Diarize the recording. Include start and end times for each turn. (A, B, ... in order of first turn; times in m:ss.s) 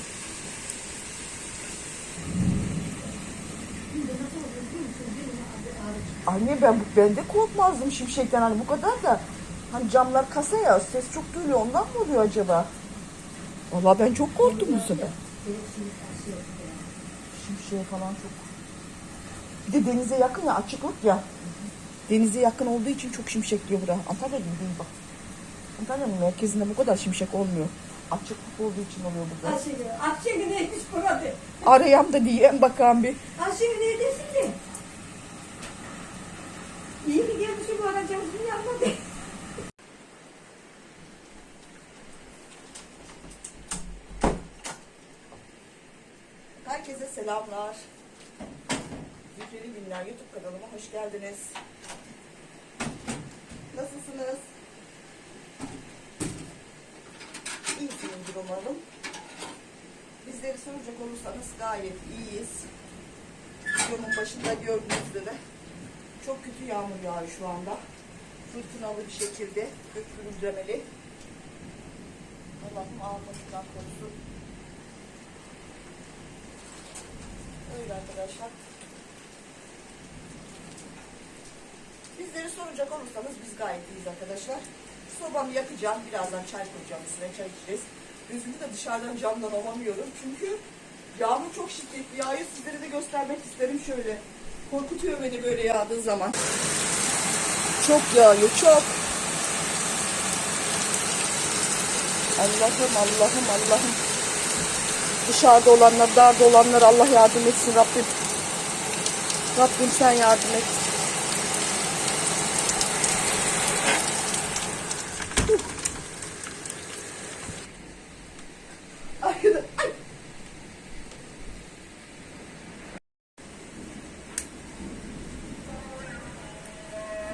0:03.9-0:06.4 A
0:06.2-0:12.7 B
0:13.7-0:15.1 B
0:14.4-0:16.9 A
0:17.3-0:18.5 B
0:19.6-0:21.3 B
0:22.1-0:24.9 B
0:25.8-0:29.6 B
0:29.4-0:31.6 A
0:31.6-0:33.2 B
0:33.4-0:34.6 A
0:37.0-0:39.0 A
0:46.6-0:47.8 B
0:49.3-0:51.6 B
0:53.7-0:54.5 B
0:57.7-0:58.8 B
1:00.2-1:02.7 B
1:03.8-1:05.4 B
1:06.2-1:07.8 B
1:08.5-1:10.9 B
1:12.6-1:14.2 B
1:17.6-1:18.6 B
1:22.1-1:30.6 B
1:31.1-1:36.4 B
1:37.8-1:39.0 B
1:42.4-1:44.0 B
1:45.2-1:48.2 B
1:49.5-1:50.8 B
1:59.2-1:59.9 B